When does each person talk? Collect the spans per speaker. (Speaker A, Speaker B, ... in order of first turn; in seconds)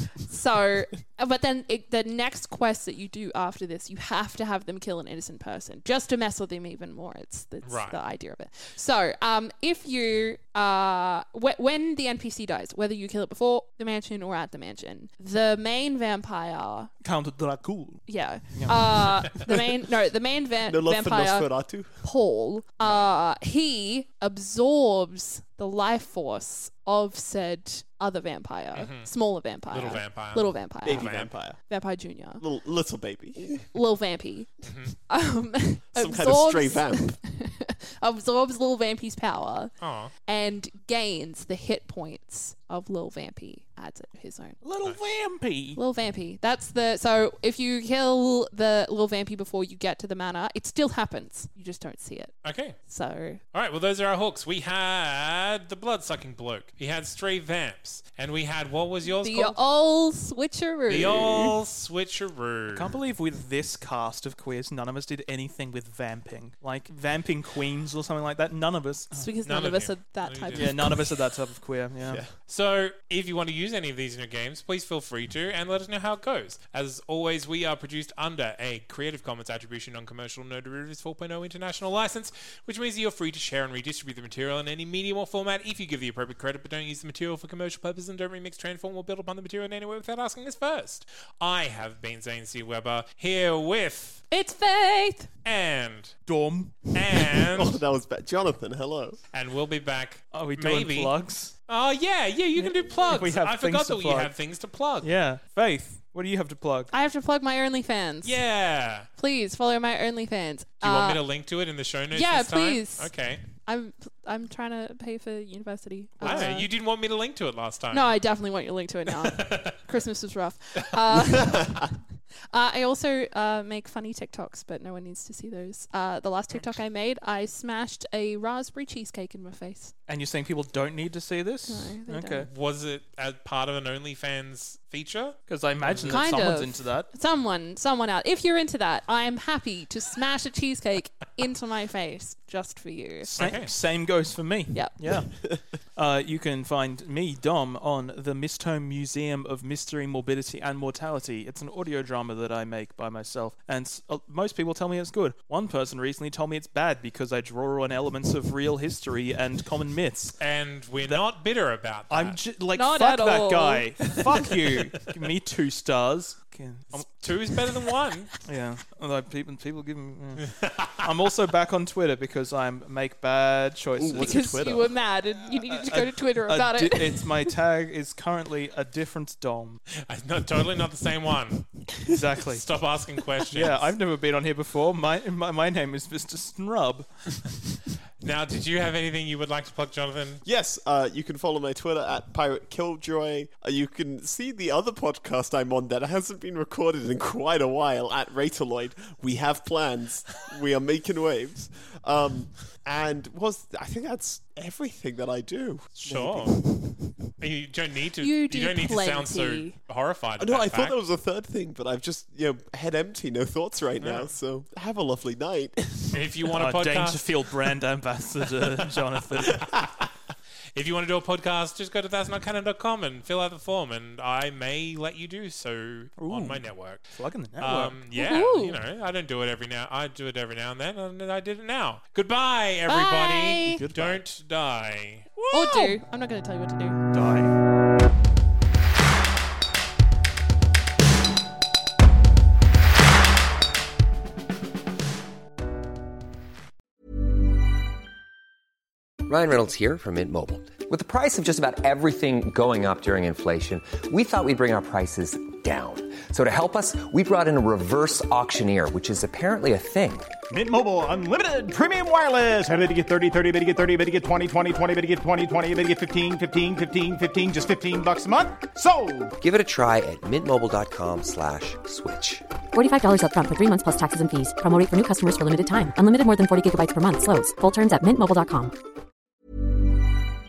Speaker A: 0.3-16.9, 18.1-32.4, 33.5-44.6, 45.8-52.4, 52.9-53.4, 59.1-61.6, 69.1-70.8, 94.3-95.3, 106.9-108.4, 109.2-111.2, 112.1-116.7, 117.9-122.0, 122.5-129.9, 131.7-132.5, 136.1-143.3, 162.8-164.2, 174.1-177.5, 208.2-209.8, 228.1-228.8, 232.9-233.8, 235.5-237.0
Speaker B: 7.6-8.0, 28.8-29.1, 29.7-31.3, 34.7-35.0, 39.8-40.1, 52.4-52.8, 53.5-59.6, 60.9-62.9, 69.4-71.1, 72.4-94.2, 95.4-96.2, 96.9-97.7, 99.3-105.1, 108.2-109.1, 110.8-113.4, 116.2-118.2, 119.2-119.8, 132.5-136.3, 143.4-143.7, 160.4-162.4, 167.0-168.3, 170.4-171.1, 180.1-183.9, 188.2-190.4, 206.0-206.7, 207.4-211.0, 214.0-214.3, 216.1-217.2, 219.6-220.0, 220.7-235.3
Speaker C: 17.0-19.4, 44.6-45.8, 62.7-69.3, 70.5-72.2, 96.3-97.3, 100.3-101.5, 102.5-104.3, 105.0-106.9, 116.2-116.5, 130.1-132.5, 135.5-137.1, 143.2-160.4, 162.1-167.1, 168.4-174.9, 175.7-179.8, 182.1-182.8, 183.5-187.6, 216.6-219.7, 226.2-228.0, 233.7-234.2, 235.4-236.0, 237.1-237.6
Speaker D: 20.7-22.0, 30.8-31.6, 32.4-33.7, 35.9-37.2, 72.1-72.3, 97.5-99.2, 121.3-121.9, 174.0-174.9, 190.4-206.6, 210.4-216.2
Speaker E: 249.3-260.4, 269.4-272.5
Speaker F: 260.5-269.4
Speaker G: 272.7-278.8